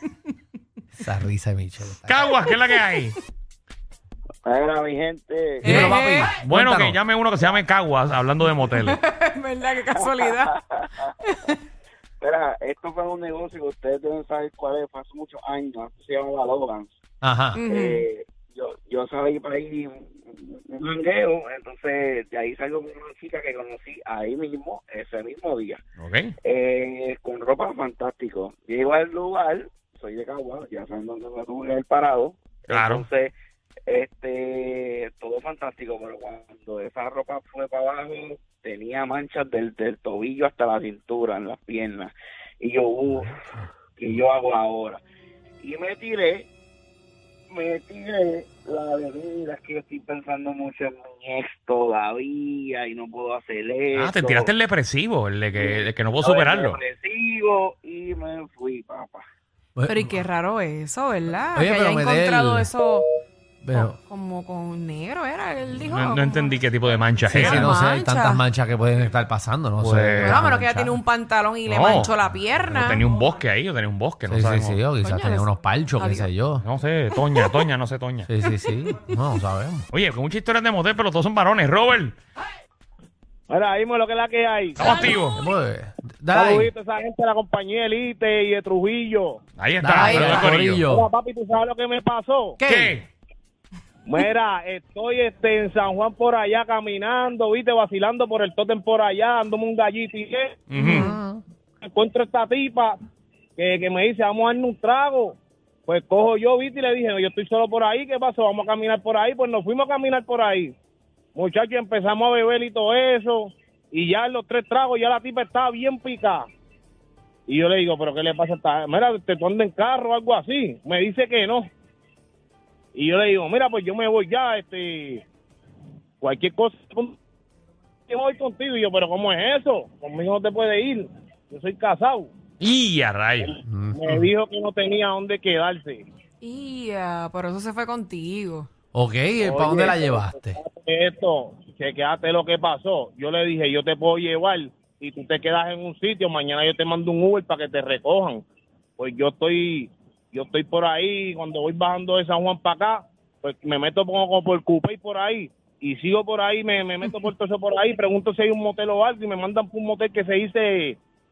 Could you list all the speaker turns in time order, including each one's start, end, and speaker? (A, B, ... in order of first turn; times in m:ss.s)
0:01.0-0:02.3 A
0:02.1-0:03.2 B
0:04.4-0:06.0 C
0:05.6-0:07.0 A
0:05.7-0:06.4 D
0:06.4-0:09.0 B
0:08.7-0:10.5 D
0:09.9-0:11.1 C
0:11.3-0:11.6 D
0:12.2-0:17.0 C
0:17.2-0:17.6 A
0:17.6-0:18.0 D
0:17.6-0:25.8 C
0:26.0-0:26.3 B
0:26.4-0:33.3 C
0:32.7-0:33.0 B
0:33.9-0:45.0 C
0:45.6-0:46.5 C
0:47.5-0:54.5 C
0:53.9-0:56.8 B
0:55.5-0:59.2 C
0:59.8-1:00.1 A
0:59.9-1:03.1 D
1:01.6-1:02.7 A
1:03.6-1:04.0 A
1:03.7-1:06.6 D
1:05.8-1:07.7 B
1:07.3-1:11.0 A
1:07.4-1:08.4 D
1:09.8-1:10.5 B
1:10.2-1:13.1 D
1:11.7-1:12.1 B
1:12.7-1:14.9 B
1:14.3-1:16.6 A
1:15.0-1:16.3 D
1:16.6-1:18.3 B
1:18.3-1:19.9 A
1:19.9-1:22.2 B
1:23.5-1:24.8 E
1:24.8-1:25.4 B
1:25.1-1:26.7 A
1:26.3-1:29.4 E
1:29.6-1:30.8 B
1:29.8-1:31.1 A
1:30.3-1:32.6 E
1:32.6-1:33.0 A
1:32.6-1:33.1 B
1:34.1-1:40.6 E
1:40.7-1:41.1 B
1:40.8-1:41.4 A
1:40.8-1:41.1 D
1:41.8-1:43.0 E
1:43.6-1:50.7 E
1:51.4-1:56.5 E
1:57.5-2:01.7 E
2:03.0-2:05.2 E
2:06.2-2:07.2 E
2:08.1-2:12.3 E
2:12.6-2:13.6 B
2:13.7-2:14.3 A
2:14.0-2:16.1 E
2:16.4-2:18.7 D
2:18.9-2:20.6 A
2:19.4-2:28.4 E
2:29.0-2:41.0 E